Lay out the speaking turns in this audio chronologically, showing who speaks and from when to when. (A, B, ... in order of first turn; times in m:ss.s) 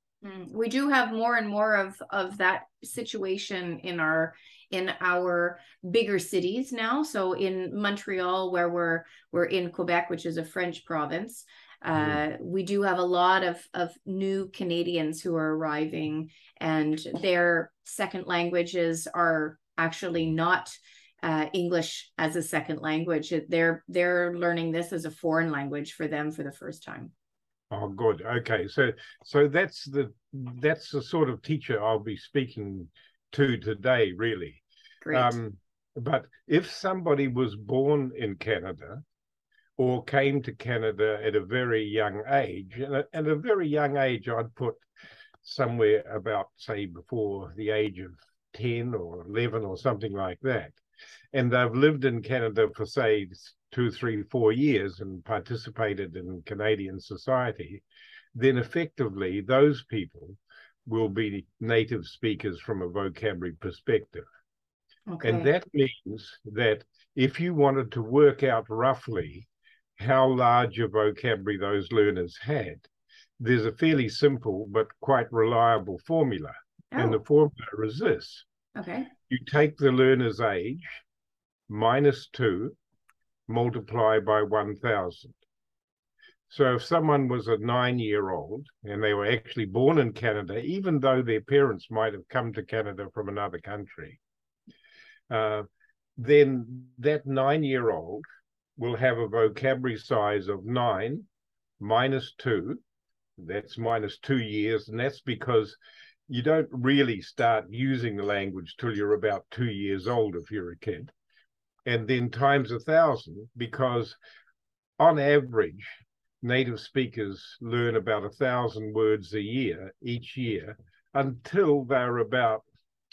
0:00.2-0:27.1 A
0:11.9-0:12.2 B
0:27.7-0:39.0 B
0:35.0-0:35.3 A
0:39.8-0:44.8 B
0:45.4-0:50.8 B
0:51.3-0:57.8 B
0:58.3-1:04.3 B
1:05.1-1:05.5 A
1:05.2-1:12.8 B
1:13.4-1:18.4 B
1:16.9-1:17.2 A
1:18.8-1:19.1 A
1:19.3-1:21.0 B
1:21.7-1:22.7 B
1:23.5-1:25.4 B
1:26.5-1:34.2 B
1:35.3-1:35.6 B
1:36.2-1:38.2 B
1:38.8-1:41.3 B
1:41.8-1:42.8 B
1:43.4-1:51.1 B
1:51.8-1:54.2 B
1:55.0-2:02.6 B